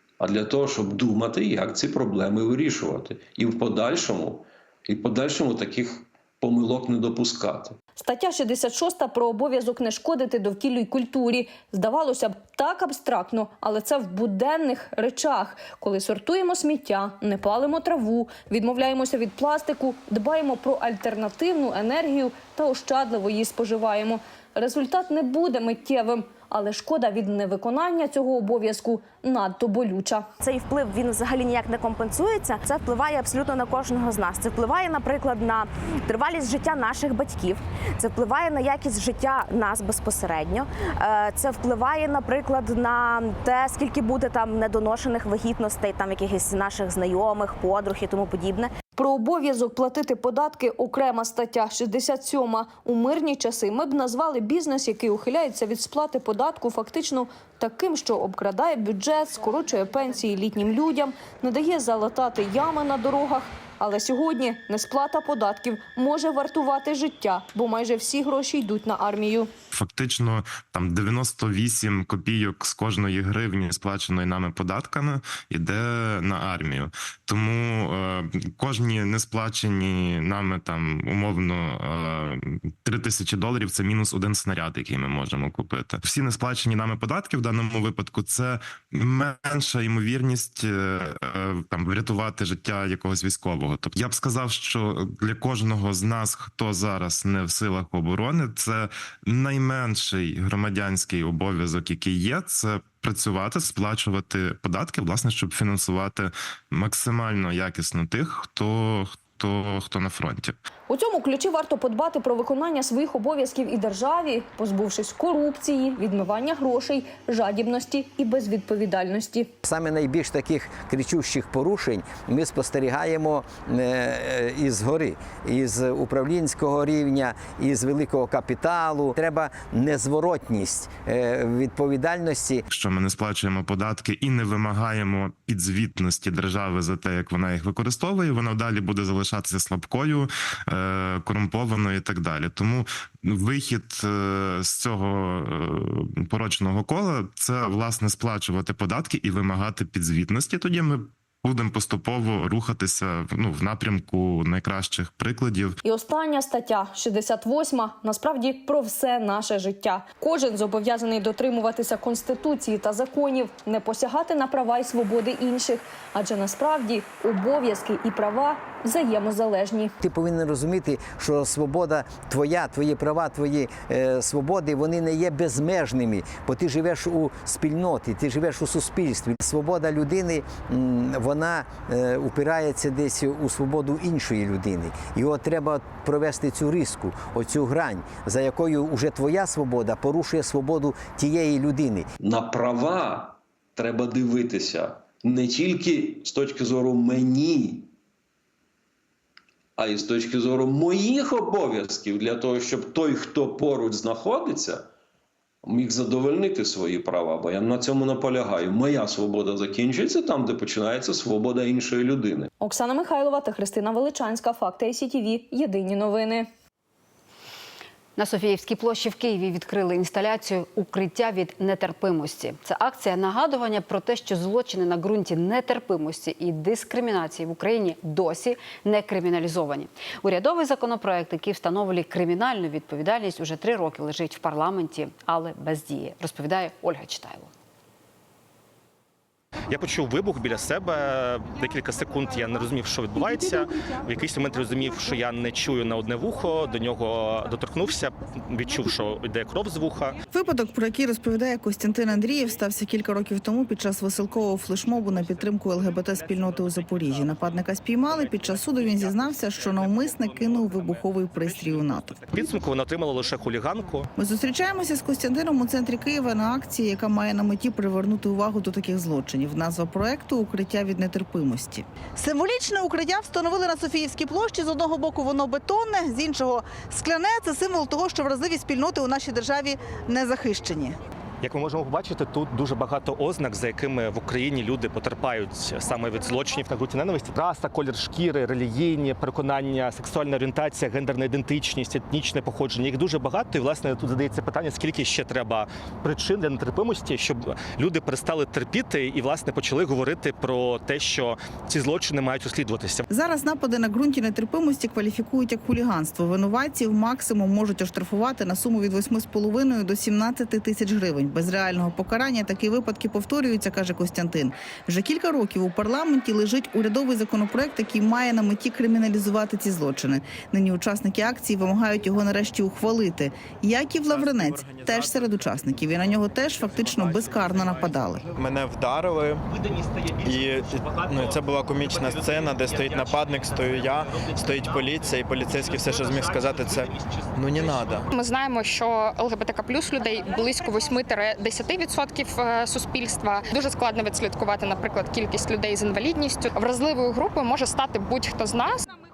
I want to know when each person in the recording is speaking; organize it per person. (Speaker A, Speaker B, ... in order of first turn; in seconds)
Speaker A: 0.2-7.8, 192.2-197.9, 199.8-204.9, 205.6-212.5
Speaker B: 8.0-30.3, 49.0-69.5, 110.9-119.5, 155.8-169.9, 212.6-216.5
Speaker C: 30.4-32.5, 33.2-35.2, 36.1-36.4, 37.0-37.5, 38.0-38.5, 39.3-44.7, 45.3-46.1, 46.8-47.5
Speaker D: 69.7-110.5, 132.7-155.8
Speaker E: 119.6-132.6, 170.0-192.1
Speaker F: 218.2-237.5
Speaker G: 239.7-250.2, 255.1-264.1, 281.4-303.0, 329.5-330.2, 332.9-333.9
Speaker H: 250.3-262.6, 264.2-281.0, 303.1-328.2
Speaker I: 328.6-329.4, 330.3-333.8, 334.6-336.8, 337.5-338.0
Speaker J: 338.1-348.9